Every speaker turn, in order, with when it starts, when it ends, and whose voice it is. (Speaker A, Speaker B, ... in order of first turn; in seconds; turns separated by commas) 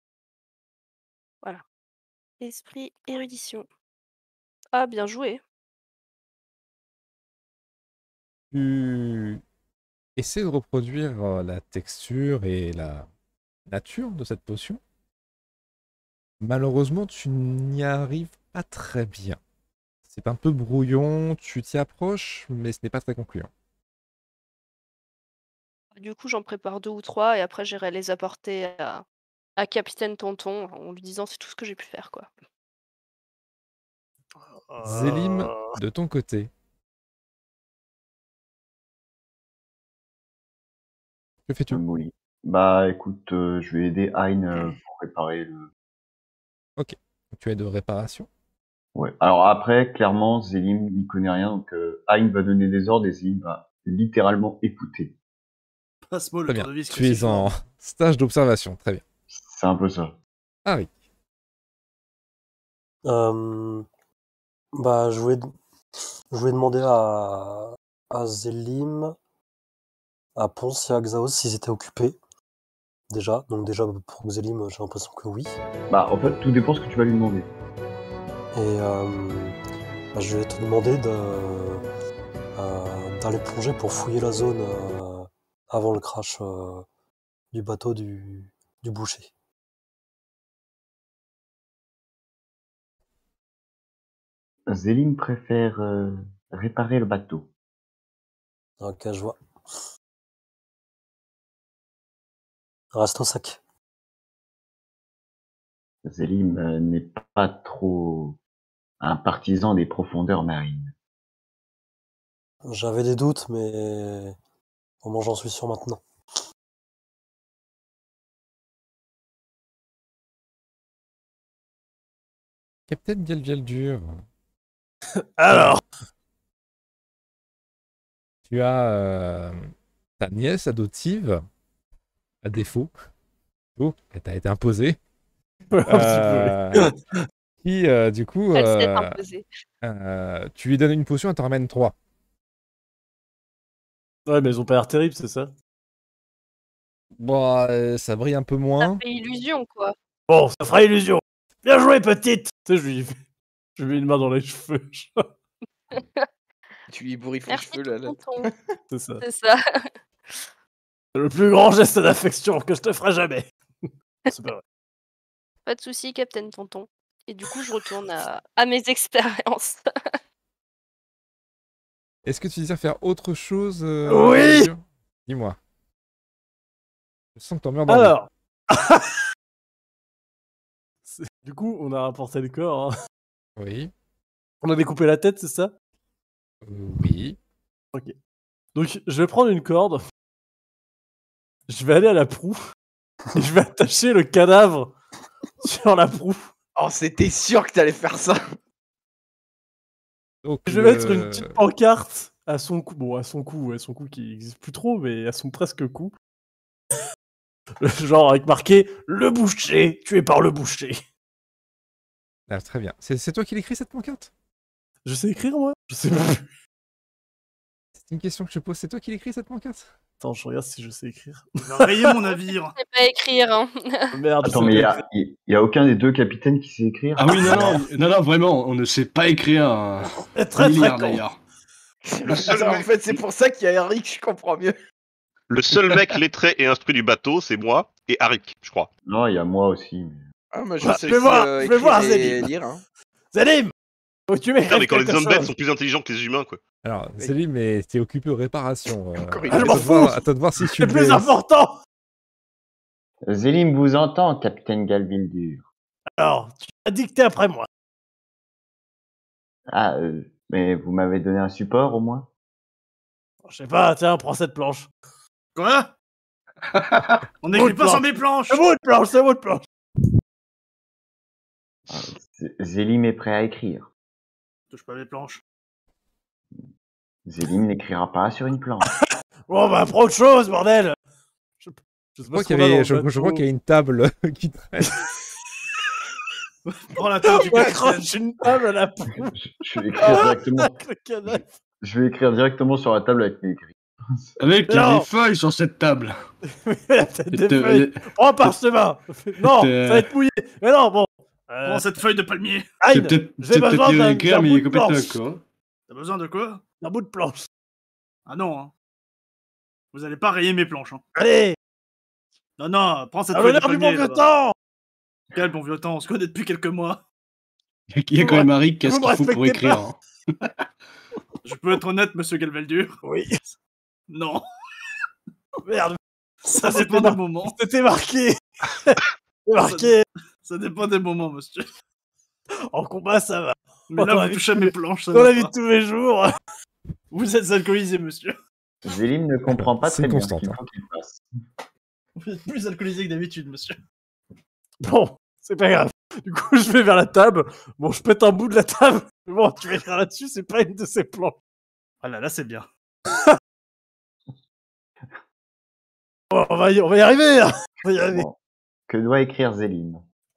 Speaker A: 2.4-3.6, Speaker A: 4.7-5.4, Speaker B: 8.5-9.4, Speaker B: 10.2-13.1, Speaker B: 13.7-14.8, Speaker B: 16.4-19.4, Speaker B: 20.1-23.5, Speaker A: 25.9-29.0, Speaker A: 29.6-32.3, Speaker C: 34.6-35.7, Speaker B: 34.8-36.5, Speaker B: 41.5-41.8, Speaker D: 41.7-45.7, Speaker B: 46.8-48.3, Speaker D: 49.0-55.1, Speaker E: 56.1-57.5, Speaker B: 56.5-59.0, Speaker D: 59.3-60.1, Speaker F: 63.0-63.9, Speaker F: 64.8-65.5, Speaker F: 66.3-69.1, Speaker F: 70.4-72.2, Speaker F: 73.1-75.6, Speaker D: 75.9-77.5, Speaker F: 78.5-79.6, Speaker F: 80.1-81.8, Speaker F: 82.5-86.8, Speaker F: 87.5-89.3, Speaker D: 94.7-97.5, Speaker F: 98.8-99.4, Speaker F: 102.9-103.6, Speaker D: 106.0-108.4, Speaker D: 109.0-110.9, Speaker F: 112.6-114.3, Speaker F: 115.0-116.0, Speaker B: 122.9-124.2, Speaker C: 125.4-125.8, Speaker B: 125.5-125.8, Speaker B: 128.5-129.6, Speaker B: 130.2-131.4, Speaker B: 132.4-132.9, Speaker B: 133.8-135.0, Speaker C: 135.7-137.0, Speaker B: 135.8-136.9, Speaker B: 137.6-139.2, Speaker A: 138.5-139.4, Speaker B: 139.8-141.9, Speaker C: 144.3-145.5, Speaker B: 147.2-149.0, Speaker A: 148.8-149.9, Speaker C: 150.3-153.2, Speaker C: 153.8-155.2, Speaker A: 155.9-156.2, Speaker G: 156.9-158.6, Speaker A: 157.5-158.5, Speaker C: 158.9-159.2, Speaker A: 159.2-159.9, Speaker C: 161.1-164.6, Speaker A: 165.7-169.8, Speaker B: 172.2-175.6, Speaker C: 174.1-174.7, Speaker B: 177.3-178.2, Speaker C: 177.9-179.1, Speaker C: 181.1-182.9, Speaker B: 183.6-183.9, Speaker C: 184.6-185.7, Speaker B: 186.6-187.4, Speaker C: 188.7-190.0, Speaker C: 191.7-192.6, Speaker C: 193.3-194.9, Speaker C: 195.6-196.5, Speaker G: 196.8-198.4, Speaker B: 200.4-201.6, Speaker C: 200.7-206.1, Speaker C: 207.8-211.0, Speaker B: 212.5-214.3, Speaker C: 215.0-216.4, Speaker B: 218.0-219.9, Speaker C: 220.2-222.3, Speaker E: 221.7-222.8, Speaker A: 222.8-224.1, Speaker C: 224.1-225.0, Speaker D: 224.4-227.8, Speaker H: 227.2-231.4, Speaker C: 230.3-231.2, Speaker G: 232.1-234.8, Speaker I: 232.3-232.8, Speaker I: 235.5-238.9, Speaker D: 239.1-240.2, Speaker G: 240.5-242.8, Speaker C: 240.8-242.5, Speaker C: 243.3-243.7, Speaker C: 244.3-245.5, Speaker I: 244.7-246.6, Speaker B: 246.8-251.3, Speaker G: 249.2-249.8, Speaker C: 249.5-251.7, Speaker D: 253.3-255.6, Speaker C: 256.2-257.7, Speaker D: 259.7-262.3, Speaker C: 263.4-264.9, Speaker E: 265.5-265.9, Speaker H: 266.7-267.2, Speaker E: 267.4-268.6, Speaker C: 267.5-269.6, Speaker D: 271.9-273.9, Speaker E: 274.7-275.4, Speaker D: 277.2-278.9, Speaker C: 279.5-280.9, Speaker C: 281.6-283.4, Speaker B: 282.3-285.1, Speaker E: 286.6-288.1, Speaker C: 287.2-289.3, Speaker D: 289.4-290.8, Speaker C: 289.9-291.5, Speaker D: 291.3-294.4, Speaker H: 294.4-296.2, Speaker C: 294.7-295.1, Speaker C: 296.5-301.9, Speaker H: 297.3-298.6, Speaker H: 299.4-300.1, Speaker E: 301.6-302.7, Speaker C: 302.8-305.1, Speaker H: 302.9-305.4, Speaker E: 305.9-306.6, Speaker C: 306.8-307.4, Speaker E: 308.3-308.7, Speaker E: 309.9-311.0, Speaker C: 311.1-311.6, Speaker E: 312.6-314.3, Speaker C: 313.3-314.5, Speaker E: 315.3-317.0, Speaker H: 317.9-320.0, Speaker C: 318.2-319.8, Speaker E: 321.4-323.0, Speaker C: 323.0-323.4, Speaker E: 324.1-324.4, Speaker C: 325.6-330.0, Speaker E: 326.5-327.6, Speaker E: 329.6-329.9, Speaker E: 330.4-331.7, Speaker C: 332.7-336.4, Speaker E: 333.9-335.5, Speaker E: 337.1-338.4, Speaker D: 338.8-341.2, Speaker B: 339.5-340.6, Speaker E: 342.2-343.8, Speaker C: 344.8-351.4, Speaker E: 352.0-352.7, Speaker C: 356.3-358.2, Speaker D: 358.0-358.3, Speaker D: 358.9-360.0